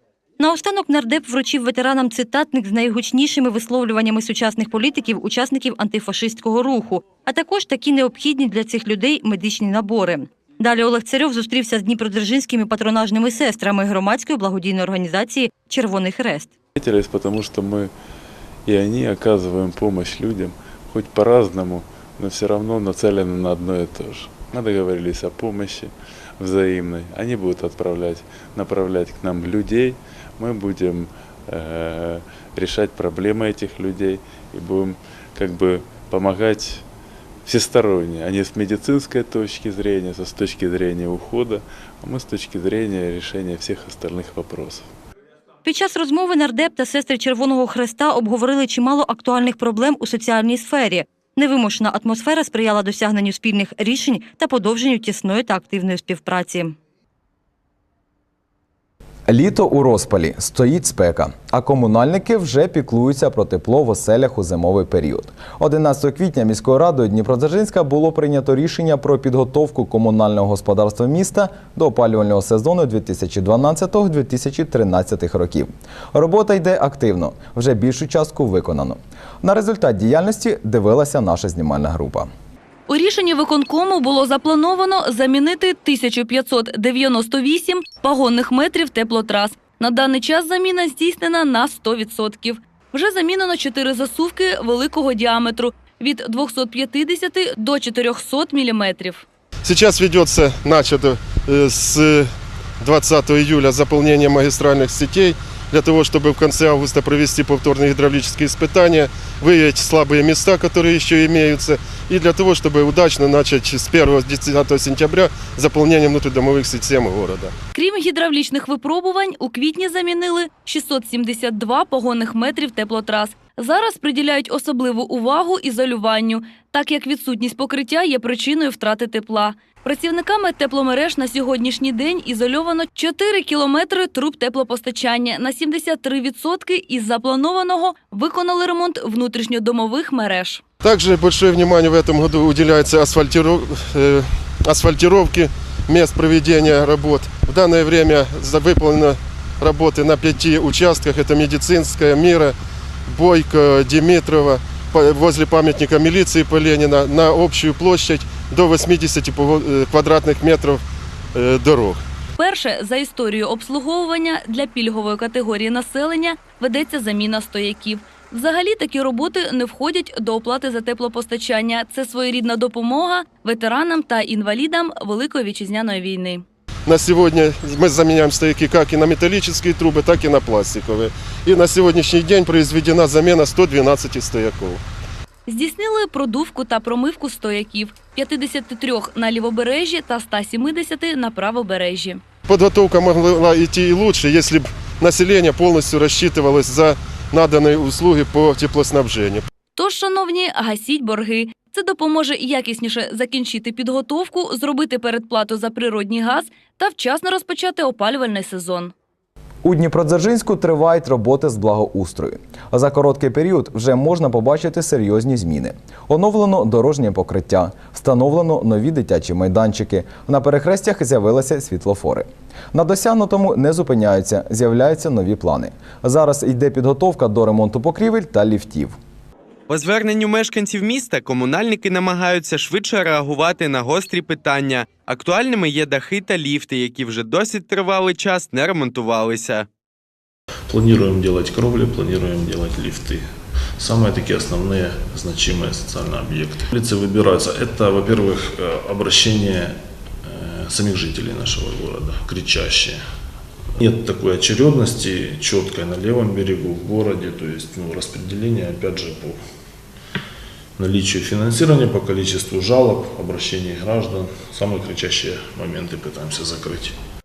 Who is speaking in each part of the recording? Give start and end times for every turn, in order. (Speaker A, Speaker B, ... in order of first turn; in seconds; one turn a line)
Speaker A: 0.4-16.5
Speaker B: 16.8-17.9
Speaker B: 18.6-36.8
Speaker B: 37.5-44.9
Speaker A: 45.6-56.8
Speaker C: 59.3-82.3
Speaker D: 82.9-99.2
Speaker E: 99.6-102.2
Speaker E: 102.8-117.5
Speaker D: 117.7-140.6
Speaker E: 140.8-152.5
Speaker E: 153.1-160.8
Speaker E: 161.3-162.0
Speaker D: 162.4-176.4
Speaker E: 176.9-184.8
Speaker D: 185.5-192.2
Speaker E: 192.5-199.4
Speaker D: 199.8-208.9
Speaker C: 209.6-228.9
Speaker F: 229.7-239.7
Speaker G: 240.7-243.2
Speaker G: 243.8-253.0
Speaker G: 253.8-259.4
Speaker G: 260.8-266.9